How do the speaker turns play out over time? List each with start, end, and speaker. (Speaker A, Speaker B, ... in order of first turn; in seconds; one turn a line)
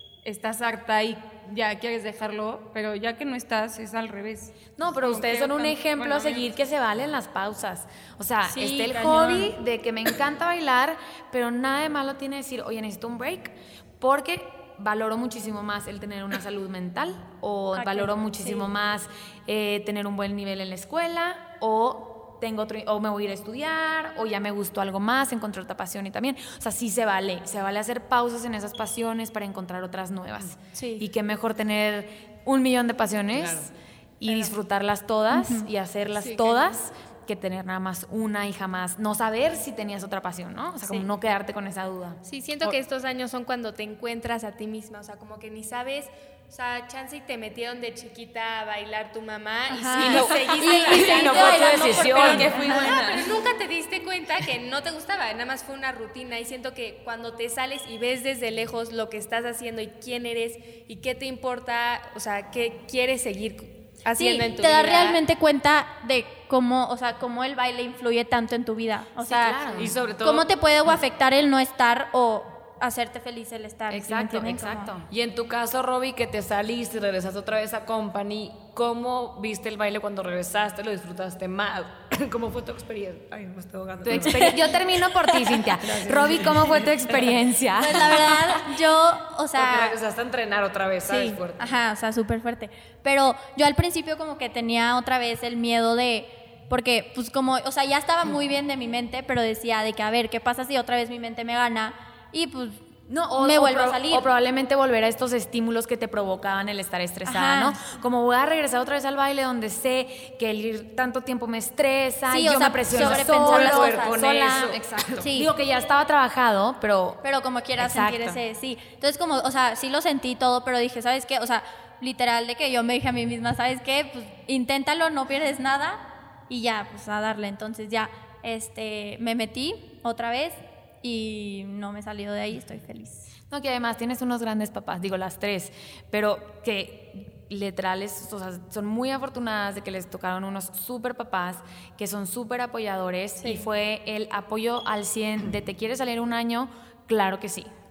Speaker A: 0.2-6.5
Speaker B: 4.8-42.2
Speaker C: 8.5-9.5
Speaker C: 17.7-18.7
Speaker D: 33.3-33.7
Speaker C: 35.3-35.7
Speaker E: 36.3-36.6
Speaker C: 40.8-41.1
Speaker E: 42.2-65.2
Speaker C: 49.7-52.9
Speaker B: 50.0-53.3
Speaker D: 51.0-53.0
Speaker C: 64.2-74.9
Speaker B: 69.2-69.9
Speaker D: 69.8-70.9
Speaker B: 73.9-75.1
Speaker D: 75.1-84.7
Speaker B: 84.0-88.3
Speaker C: 84.2-84.6
Speaker D: 85.8-87.3
Speaker C: 87.8-90.0
Speaker D: 87.9-88.6
Speaker D: 89.5-91.6
Speaker C: 91.0-102.8
Speaker B: 103.1-117.2
Speaker C: 103.4-104.2
Speaker C: 107.2-107.9
Speaker C: 112.3-114.2
Speaker D: 112.8-115.3
Speaker C: 115.2-115.5
Speaker C: 117.2-133.3
Speaker B: 117.8-118.4
Speaker B: 133.5-147.7